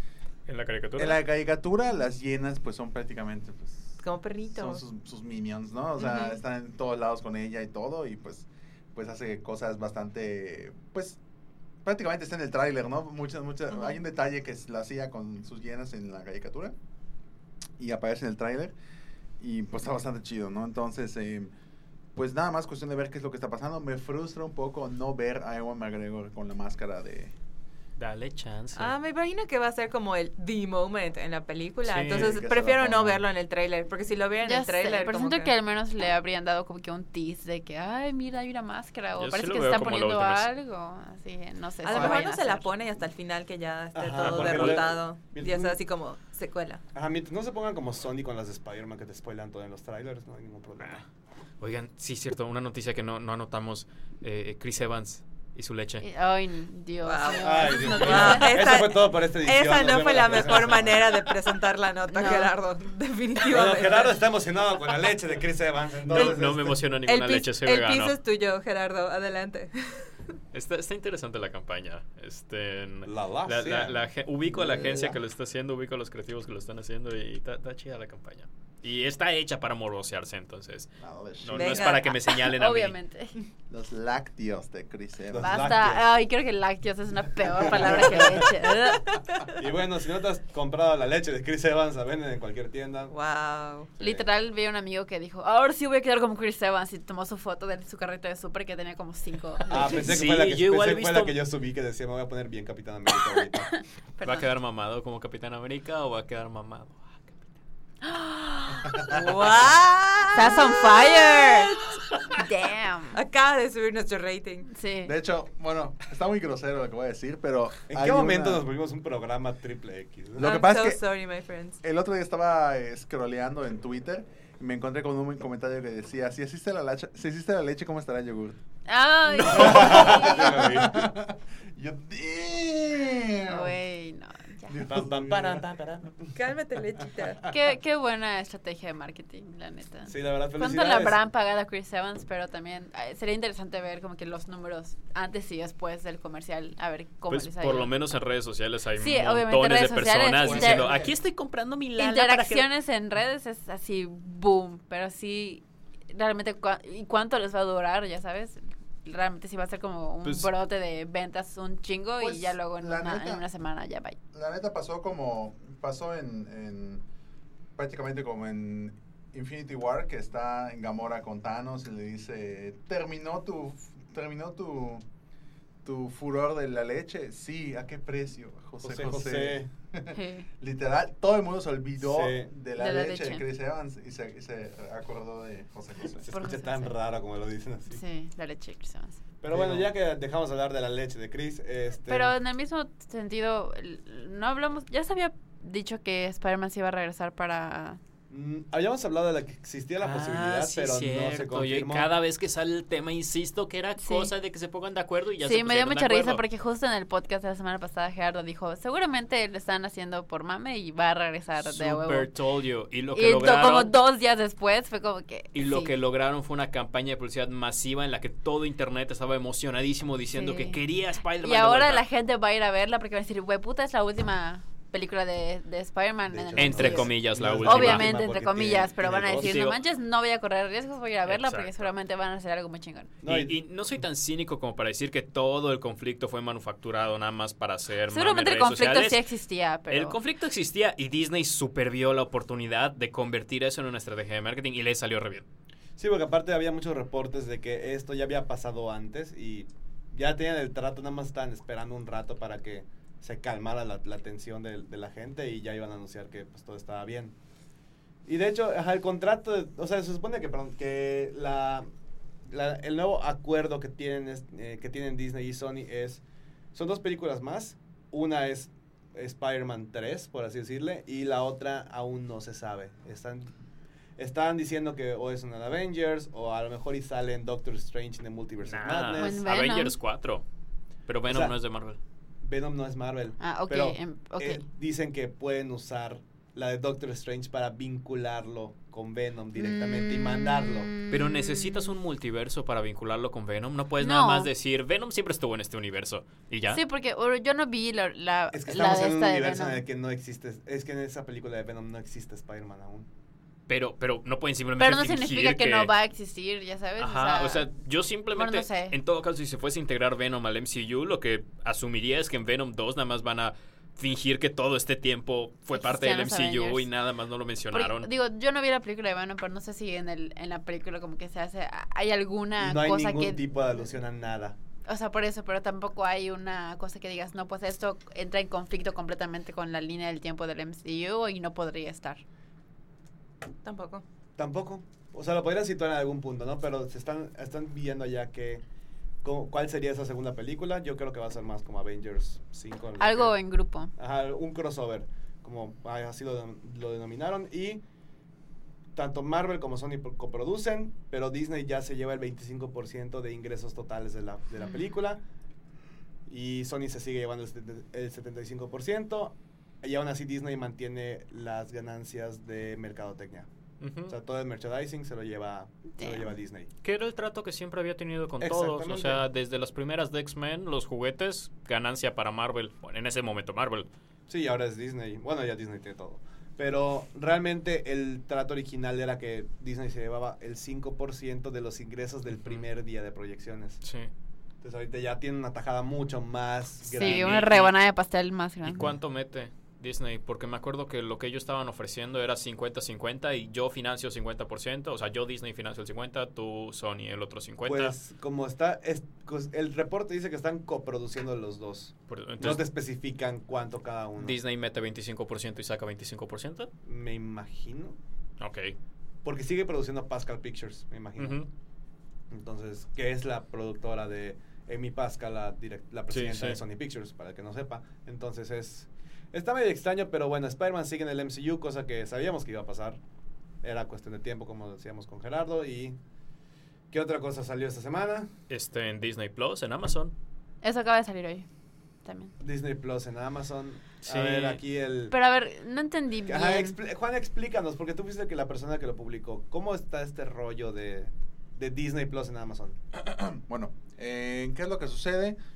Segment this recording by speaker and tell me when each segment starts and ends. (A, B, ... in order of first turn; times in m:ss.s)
0:00.5-0:01.2 A
0:01.0-0:04.0 B
0:04.0-0:04.8 C
0:04.6-0:11.2 B
0:06.0-0:06.3 C
0:11.8-0:16.8 B
0:13.7-0:14.0 C
0:17.8-0:18.7 B
0:19.4-0:21.5 B
0:22.2-0:27.3 B
0:28.0-0:28.9 A
0:28.8-0:35.5 C
0:31.8-0:32.4 A
0:32.1-0:33.2 B
0:34.4-0:42.7 D
0:39.2-0:40.5 A
0:41.8-0:46.8 C
0:43.9-0:45.8 E
0:44.2-0:44.8 A
0:46.9-0:51.0 E
0:51.6-0:56.0 A
0:56.0-0:58.6 D
0:57.0-1:04.2 C
0:57.4-1:01.3 E
1:02.1-1:02.5 D
1:03.4-1:06.8 E
1:06.1-1:08.1 A
1:06.1-1:06.4 C
1:07.0-1:10.1 C
1:10.5-1:20.9 A
1:13.0-1:14.0 E
1:14.7-1:15.1 E
1:21.0-1:21.9 B
1:21.4-1:23.0 A
1:21.5-1:22.1 C
1:22.3-1:23.3 D
1:23.7-1:25.8 B
1:25.3-1:26.1 E
1:25.4-1:29.1 D
1:27.6-1:28.5 E
1:28.9-1:29.6 C
1:29.6-1:33.1 E
1:33.1-1:33.9 C
1:34.0-1:34.2 E
1:34.0-1:39.9 D
1:39.7-1:43.7 E
1:39.8-1:41.4 A
1:43.7-1:44.4 D
1:44.2-1:47.5 A
1:48.0-1:49.0 D
1:48.9-1:51.8 C
1:50.3-1:51.7 D
1:52.3-1:53.2 D
1:53.1-1:54.7 C
1:54.7-1:55.1 D
1:55.0-1:58.6 B
1:57.9-2:00.5 E
2:00.4-2:01.0 B
2:00.4-2:01.8 C
2:01.8-2:08.6 B
2:08.9-2:10.6 D
2:09.4-2:11.1 E
2:09.4-2:13.8 B
2:13.5-2:14.7 D
2:14.6-2:15.6 B
2:14.8-2:16.3 E
2:16.4-2:17.5 C
2:17.5-2:27.9 D
2:20.1-2:21.2 E
2:27.3-2:32.7 A
2:29.0-2:31.0 D
2:30.4-2:31.1 B
2:32.0-2:44.2 D
2:40.2-2:40.5 A
2:42.2-2:43.4 B
2:44.3-2:47.0 B
2:47.8-2:55.0 B
2:55.8-3:06.3 B
2:58.8-2:59.7 E
3:00.1-3:00.5 D
3:02.0-3:02.5 E
3:02.8-3:03.4 D
3:06.2-3:08.0 E
3:06.3-3:06.9 D
3:07.9-3:09.2 D
3:09.4-3:12.4 E
3:09.5-3:09.9 B
3:12.1-3:18.0 D
3:18.3-3:22.1 E
3:20.0-3:26.4 A
3:24.0-3:24.3 D
3:25.4-3:32.3 D
3:31.6-3:33.9 A
3:33.1-3:35.9 D
3:35.5-3:42.1 A
3:40.3-3:40.8 D
3:41.4-3:53.1 D
3:46.3-3:49.6 E
3:46.6-3:48.2 A
3:49.2-3:49.8 A
3:51.3-3:51.9 A
3:53.2-3:53.6 E
3:53.2-3:59.2 A
3:58.1-4:00.2 D
3:59.9-4:05.4 A
4:06.0-4:17.4 E
4:18.2-4:21.9 E
4:22.5-4:26.2 E
4:26.7-4:33.5 E
4:34.2-4:39.4 E
4:38.6-4:40.4 A
4:39.2-4:40.0 D
4:41.1-4:42.0 A
4:41.3-4:41.6 E
4:42.4-4:50.9 E
4:43.4-4:44.6 D
4:49.6-4:51.9 D
4:51.1-4:56.8 A
4:54.0-4:54.5 D
4:56.7-4:59.8 D
4:58.5-5:03.1 E
5:03.7-5:05.9 A
5:04.8-5:07.7 D
5:07.0-5:18.1 A
5:08.3-5:09.0 D
5:15.7-5:16.9 D
5:17.7-5:23.4 D
5:22.6-5:24.6 E
5:24.8-5:32.2 D
5:33.6-5:34.0 C
5:34.4-5:38.6 E
5:39.2-5:43.4 E
5:43.0-5:43.9 D
5:44.0-5:47.8 E
5:48.9-5:55.2 E
5:56.3-6:03.5 E
6:03.8-6:04.2 A
6:04.1-6:06.7 E
6:06.0-6:06.3 D
6:06.8-6:13.9 A
6:08.4-6:09.2 E
6:14.3-6:23.8 E
6:22.3-6:22.6 A
6:23.8-6:24.1 A
6:24.6-6:27.7 E
6:26.9-6:28.9 D
6:27.0-6:27.7 A
6:28.6-6:37.9 A
6:37.7-6:44.4 E
6:42.1-6:42.6 A
6:44.2-6:46.7 A
6:46.8-6:48.0 E
6:48.4-6:48.8 A
6:49.2-6:51.4 E
6:51.2-6:51.5 A
6:52.3-7:03.0 E
6:56.1-6:56.6 A
7:03.6-7:06.0 E
7:06.9-7:08.3 E
7:08.5-7:10.1 A
7:10.6-7:11.5 D
7:12.0-7:12.3 D
7:12.4-7:15.2 E
7:14.0-7:14.6 A
7:15.1-7:16.8 D
7:16.3-7:22.8 E
7:22.9-7:25.4 B